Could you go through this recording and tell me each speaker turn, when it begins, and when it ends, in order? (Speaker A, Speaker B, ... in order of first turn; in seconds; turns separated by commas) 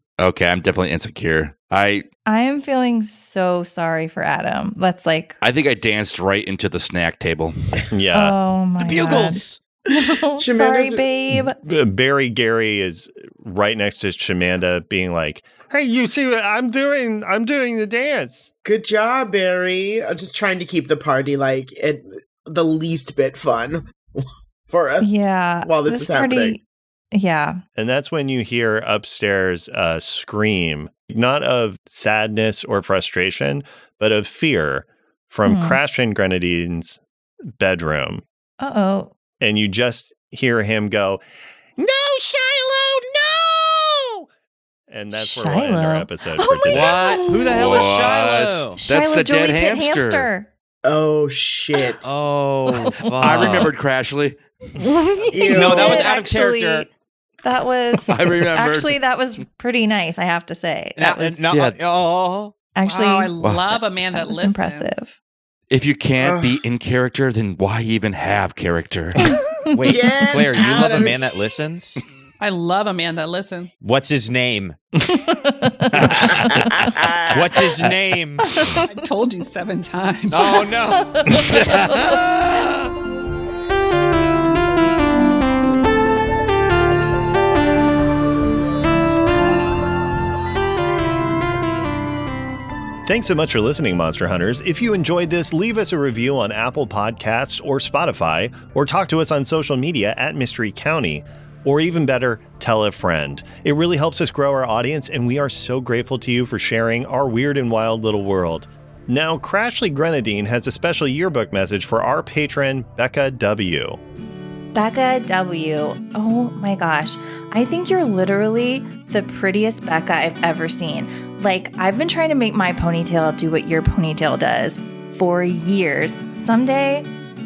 Speaker A: 0.2-2.0, Speaker B: 2.3-5.4, Speaker A: 5.4-7.8, Speaker C: 7.9-8.3, Speaker B: 8.1-11.6, Speaker D: 8.8-9.6, Speaker E: 9.9-11.1, Speaker C: 11.3-18.5, Speaker E: 18.6-26.6, Speaker B: 25.0-26.6, Speaker B: 27.1-27.6, Speaker C: 27.8-37.0, Speaker B: 35.5-35.8, Speaker C: 37.6-38.2, Speaker B: 38.6-39.1, Speaker C: 39.4-41.2, Speaker C: 41.8-44.2, Speaker C: 44.9-47.1, Speaker B: 45.1-47.7, Speaker D: 46.7-48.8, Speaker A: 47.4-50.3, Speaker B: 48.8-50.5, Speaker E: 50.8-52.1, Speaker D: 52.0-53.7, Speaker B: 52.8-53.7, Speaker A: 53.0-54.4, Speaker B: 54.8-56.9, Speaker E: 55.3-56.1, Speaker D: 55.5-56.9, Speaker B: 57.4-61.4, Speaker A: 58.1-59.0, Speaker D: 61.0-62.5, Speaker A: 61.5-61.8, Speaker B: 62.8-65.1, Speaker F: 62.8-65.0, Speaker A: 65.7-69.3, Speaker E: 66.2-66.6, Speaker B: 69.2-69.7, Speaker D: 69.7-72.0, Speaker E: 69.9-71.2, Speaker F: 72.4-73.7, Speaker D: 73.8-74.8, Speaker B: 75.1-76.2, Speaker A: 75.9-76.9, Speaker E: 76.0-77.5, Speaker D: 77.3-78.5, Speaker B: 78.4-78.9, Speaker F: 78.8-80.7, Speaker D: 80.3-81.4, Speaker B: 80.9-82.2, Speaker A: 81.3-82.7, Speaker C: 93.0-114.0, Speaker B: 114.8-127.1